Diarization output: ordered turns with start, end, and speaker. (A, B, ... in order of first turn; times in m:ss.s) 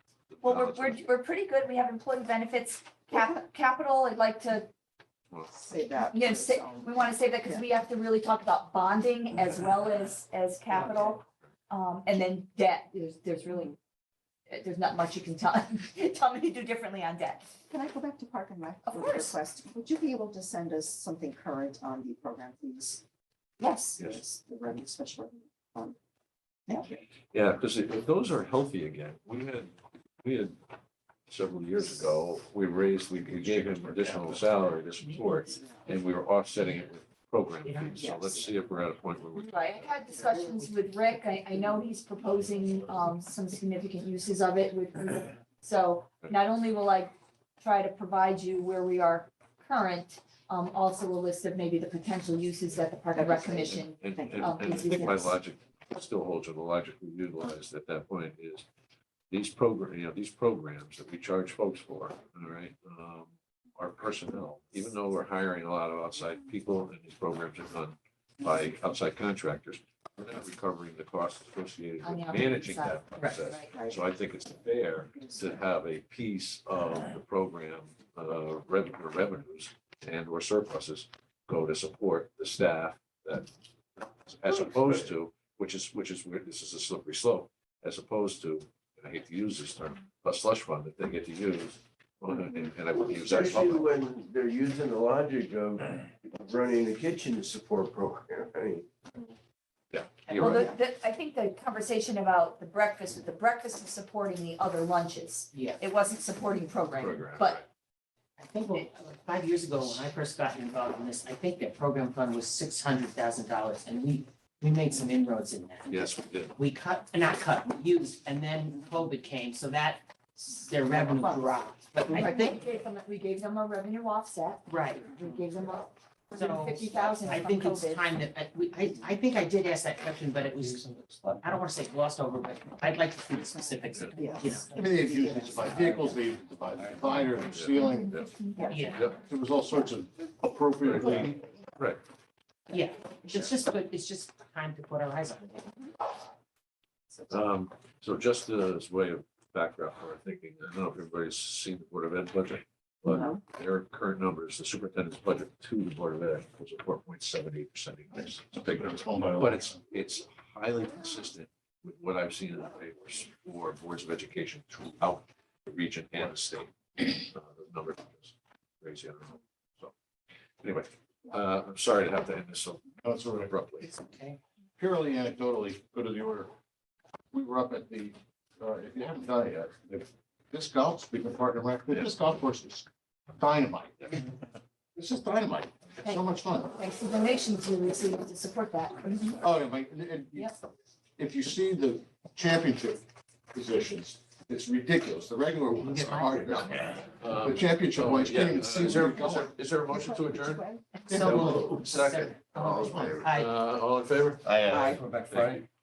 0:00.3-0:01.1 A
0:00.4-0:04.7 B
0:05.5-0:07.6 C
0:06.1-0:13.8 B
0:11.0-0:11.3 A
0:14.5-0:17.6 B
0:17.7-0:23.0 C
0:18.8-0:19.4 B
0:23.6-0:24.0 B
0:24.0-0:26.0 C
0:27.3-0:30.6 A
0:31.3-0:39.9 A
0:33.2-0:34.4 D
0:36.6-0:36.9 E
0:37.6-0:38.2 E
0:38.0-0:38.6 C
0:39.4-0:55.3 B
0:53.2-0:55.2 C
0:54.0-0:58.6 A
0:59.3-1:33.9 A
1:12.0-1:13.7 B
1:24.5-1:25.0 F
1:32.9-1:39.3 F
1:39.9-1:40.7 A
1:40.3-1:40.7 E
1:40.4-1:47.6 B
1:45.5-1:45.8 E
1:46.9-1:47.6 A
1:48.4-2:02.6 E
1:55.9-1:56.6 A
2:00.9-2:01.7 C
2:02.1-2:08.0 B
2:04.7-2:05.1 E
2:06.3-2:16.0 E
2:11.0-2:11.4 A
2:14.2-2:15.9 C
2:14.7-2:18.2 D
2:17.0-2:18.3 A
2:17.6-2:19.0 B
2:18.7-2:19.1 E
2:18.9-2:19.2 A
2:19.1-2:21.4 D
2:20.8-2:22.0 A
2:22.7-2:25.8 E
2:27.3-2:49.9 A
2:38.5-2:39.8 D
2:50.6-2:53.9 A
2:53.0-2:53.5 D
2:53.8-2:54.4 E
2:54.8-2:56.5 D
2:57.3-3:02.9 D
3:03.4-3:04.2 D
3:05.0-3:06.7 D
3:06.0-3:09.4 B
3:09.4-3:10.5 D
3:11.2-3:19.5 D
3:15.8-3:16.9 E
3:17.2-3:25.7 A
3:18.9-3:21.0 C
3:20.9-3:23.5 E
3:21.1-3:21.7 D
3:22.6-3:23.3 D
3:24.4-3:25.0 D
3:24.7-3:25.0 E